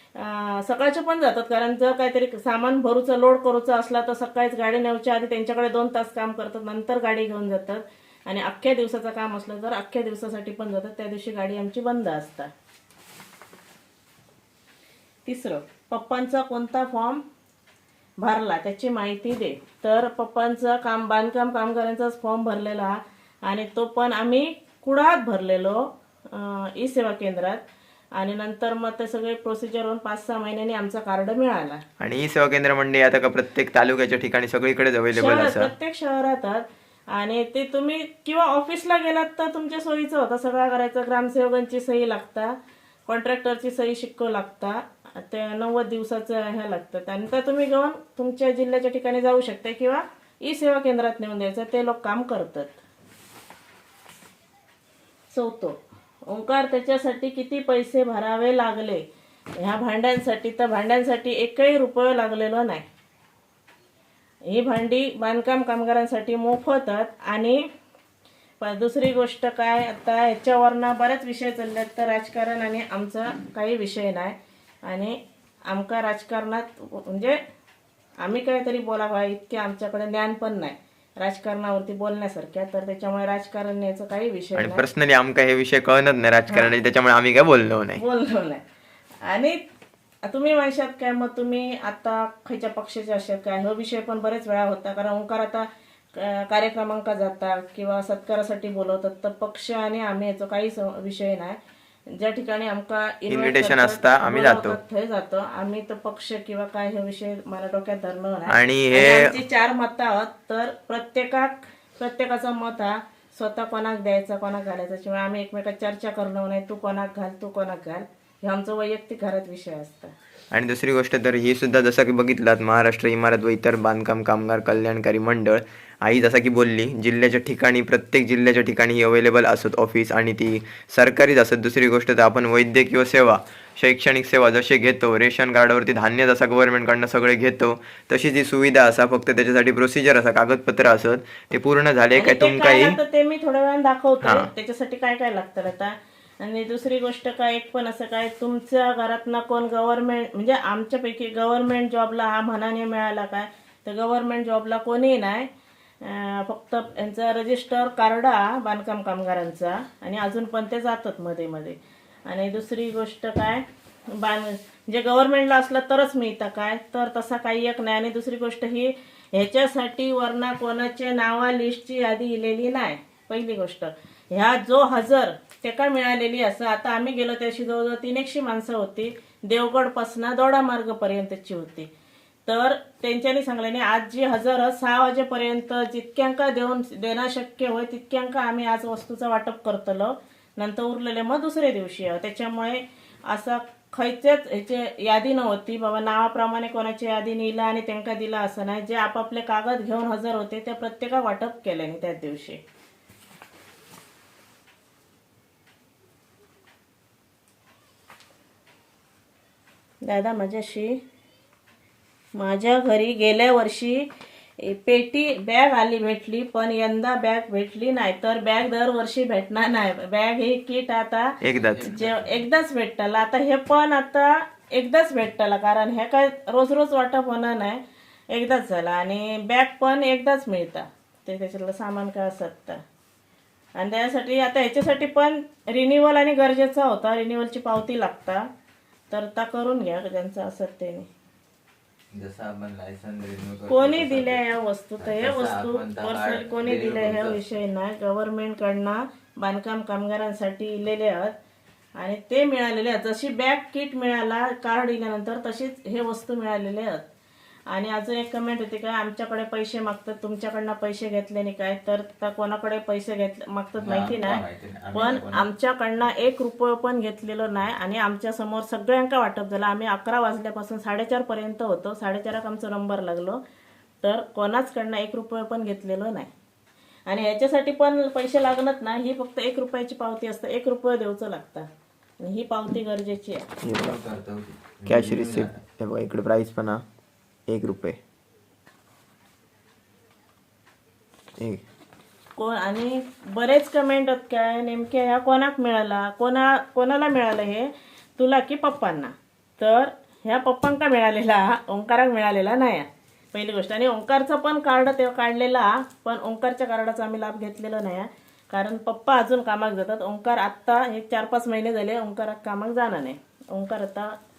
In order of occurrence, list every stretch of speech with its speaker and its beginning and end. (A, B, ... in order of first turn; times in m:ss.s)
0:00.2-0:12.5 A
0:15.2-0:17.2 A
0:18.2-0:27.6 A
0:28.2-0:31.8 A
0:32.0-0:35.7 B
0:35.1-0:42.6 A
0:43.1-0:52.8 A
0:55.3-0:59.0 A
0:59.6-1:02.8 A
1:04.5-1:07.6 A
1:08.6-1:14.3 A
1:14.9-1:15.2 A
1:15.7-1:17.4 A
1:18.2-1:24.8 A
1:24.6-1:28.0 B
1:28.0-1:28.6 A
1:29.2-1:29.6 A
1:30.3-1:41.6 A
1:42.1-2:00.1 A
1:43.3-1:44.8 B
1:48.5-1:49.4 B
2:00.5-2:23.0 B
2:22.2-2:35.5 A
2:24.2-2:24.5 B
2:36.0-3:01.9 A
3:02.4-3:22.6 A
3:30.0-3:31.0 A
3:32.4-3:34.1 A
3:34.6-3:52.8 A
3:41.4-3:41.9 B
3:41.7-3:42.4 C
3:53.8-3:58.4 A
3:59.1-4:01.1 A
4:02.1-4:04.4 C
4:03.7-4:11.3 A
4:05.0-4:07.4 C
4:12.0-4:17.0 A
4:17.7-4:24.4 A
4:23.8-4:25.5 C
4:24.9-4:33.4 A
4:34.0-4:36.3 A
4:37.1-4:41.7 A
4:42.2-4:43.5 A
4:43.6-4:44.0 B
4:43.8-4:45.6 C
4:44.8-4:46.8 B
4:47.5-4:48.0 B
4:51.4-4:51.6 B
4:52.4-5:14.1 A